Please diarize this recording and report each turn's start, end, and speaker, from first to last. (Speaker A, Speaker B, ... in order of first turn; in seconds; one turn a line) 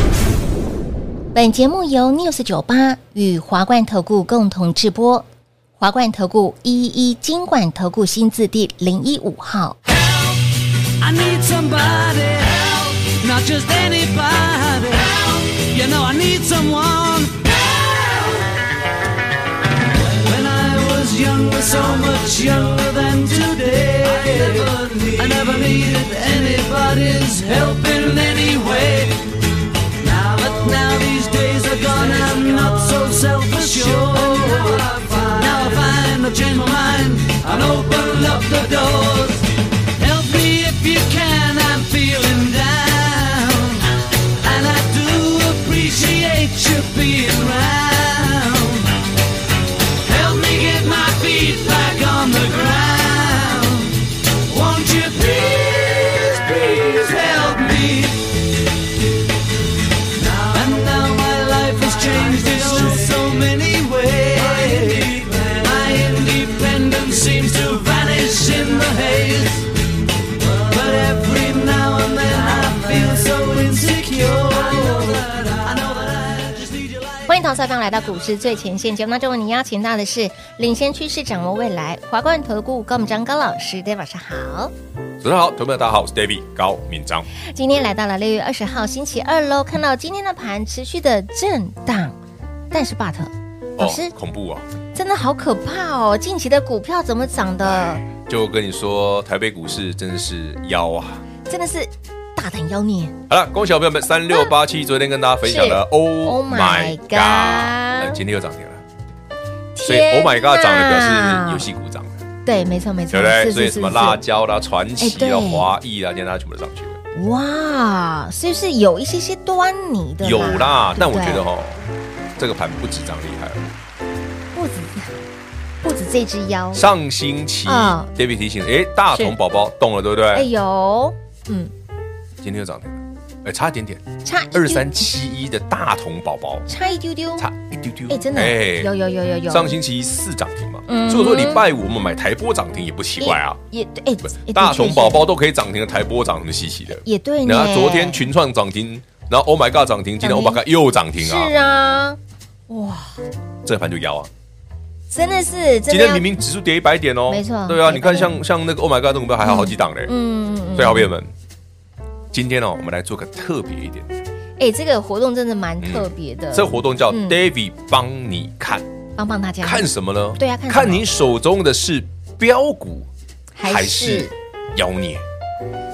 Speaker A: 1.3-5.2
Speaker A: 5.8-9.8
Speaker B: 10.9-18.5
Speaker B: 20.0-29.4
Speaker B: 30.0-49.0
Speaker B: 50.0-58.4
Speaker B: 60.1-69.7
Speaker B: 70.5-77.2
Speaker A: 77.3-84.7
Speaker C: 85.2-87.3
Speaker A: 87.4-92.2
Speaker A: 92.7-94.1
Speaker C: 93.8-94.7
Speaker A: 94.9-98.0
Speaker C: 97.7-101.2
Speaker A: 101.5-103.2
Speaker C: 103.3-108.8
Speaker A: 105.4-108.2
Speaker A: 109.7-111.7
Speaker C: 109.8-112.2
Speaker A: 112.4-114.2
Speaker C: 113.1-117.0
Speaker A: 115.0-115.7
Speaker A: 117.1-121.4
Speaker C: 120.2-121.8
Speaker C: 122.4-123.7
Speaker A: 124.5-125.2
Speaker A: 125.8-126.8
Speaker C: 126.7-130.5
Speaker A: 127.7-128.1
Speaker A: 130.3-131.7
Speaker C: 132.4-136.7
Speaker A: 134.2-134.9
Speaker A: 136.7-137.4
Speaker C: 137.4-138.9
Speaker A: 138.1-139.8
Speaker C: 139.5-143.6
Speaker A: 140.9-141.6
Speaker A: 143.2-145.2
Speaker C: 144.3-151.5
Speaker A: 146.9-148.3
Speaker A: 150.2-150.6
Speaker A: 151.2-152.2
Speaker A: 152.7-153.2
Speaker C: 153.6-154.3
Speaker A: 155.1-156.2
Speaker C: 155.9-160.1
Speaker A: 157.3-158.4
Speaker A: 159.4-161.1
Speaker C: 160.7-161.3
Speaker C: 162.3-164.1
Speaker A: 164.6-167.4
Speaker C: 165.8-168.8
Speaker A: 169.2-171.1
Speaker C: 169.6-173.1
Speaker A: 173.6-174.3
Speaker C: 173.6-175.2